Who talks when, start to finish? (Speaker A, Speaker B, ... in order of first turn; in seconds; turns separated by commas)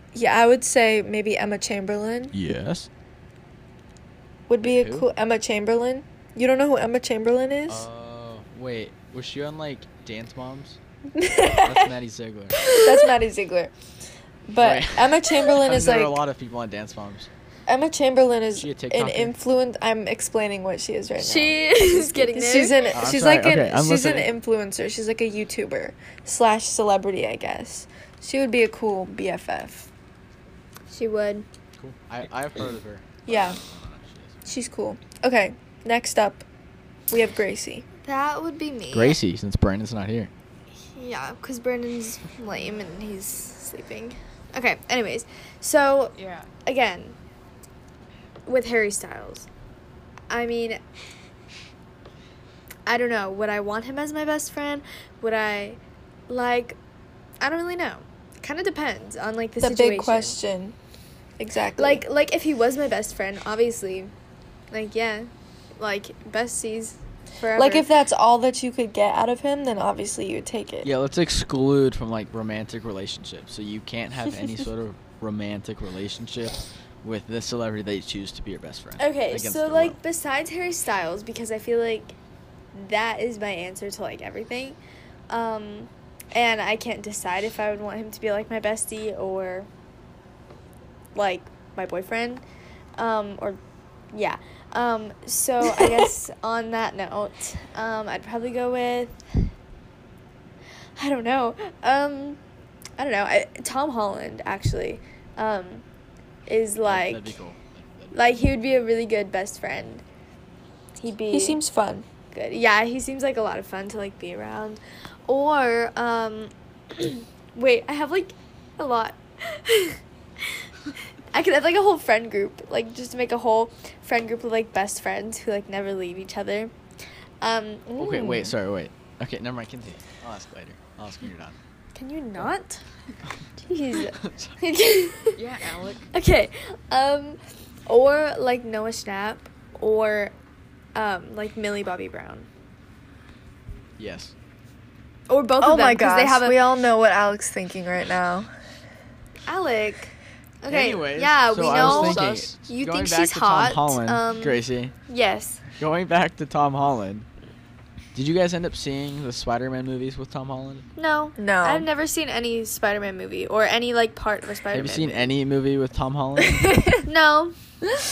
Speaker A: 0.1-2.3, Speaker B: 2.3-2.9, Speaker A: 4.5-7.8, Speaker B: 4.6-5.1, Speaker B: 7.7-10.8, Speaker A: 11.1-11.9, Speaker B: 11.6-12.6, Speaker A: 12.7-13.7, Speaker A: 14.5-16.2, Speaker B: 14.6-17.3, Speaker A: 17.7-29.9, Speaker B: 18.5-19.3, Speaker C: 21.2-22.9, Speaker B: 22.9-24.3, Speaker C: 30.9-31.4, Speaker B: 31.8-34.4, Speaker A: 33.3-33.6, Speaker A: 34.5-36.4, Speaker A: 37.1-37.8, Speaker C: 38.0-39.2, Speaker B: 38.9-40.3, Speaker C: 40.8-47.1, Speaker D: 46.2-46.5, Speaker C: 48.5-49.5, Speaker C: 50.3-50.8, Speaker C: 52.9-56.8, Speaker C: 57.4-60.4, Speaker A: 59.6-60.7, Speaker A: 61.4-62.0, Speaker C: 61.8-64.1, Speaker C: 64.7-67.9, Speaker A: 67.5-70.9, Speaker B: 70.8-80.0, Speaker C: 79.0-82.2, Speaker C: 82.7-89.7, Speaker C: 91.1-92.4, Speaker C: 93.0-93.6, Speaker C: 94.1-99.5, Speaker C: 101.0-102.4, Speaker C: 103.0-105.8, Speaker C: 106.5-107.3, Speaker B: 106.8-108.2, Speaker C: 108.1-110.0, Speaker C: 111.0-111.6, Speaker A: 111.3-112.0, Speaker C: 112.3-120.0, Speaker C: 121.3-126.7, Speaker C: 127.4-128.4, Speaker B: 128.0-131.6, Speaker A: 128.0-128.5, Speaker C: 131.9-132.8, Speaker C: 133.6-135.4, Speaker B: 134.2-134.5, Speaker D: 135.4-136.1, Speaker C: 136.1-140.3, Speaker C: 140.9-142.5, Speaker B: 144.0-144.3, Speaker C: 145.3-146.7, Speaker A: 145.6-148.5, Speaker C: 149.4-155.6, Speaker B: 150.7-154.9, Speaker D: 151.6-152.5, Speaker B: 155.8-157.3, Speaker B: 158.1-160.8, Speaker C: 160.9-165.3, Speaker A: 161.4-161.9, Speaker B: 164.7-166.7, Speaker A: 166.4-167.0, Speaker C: 167.0-167.5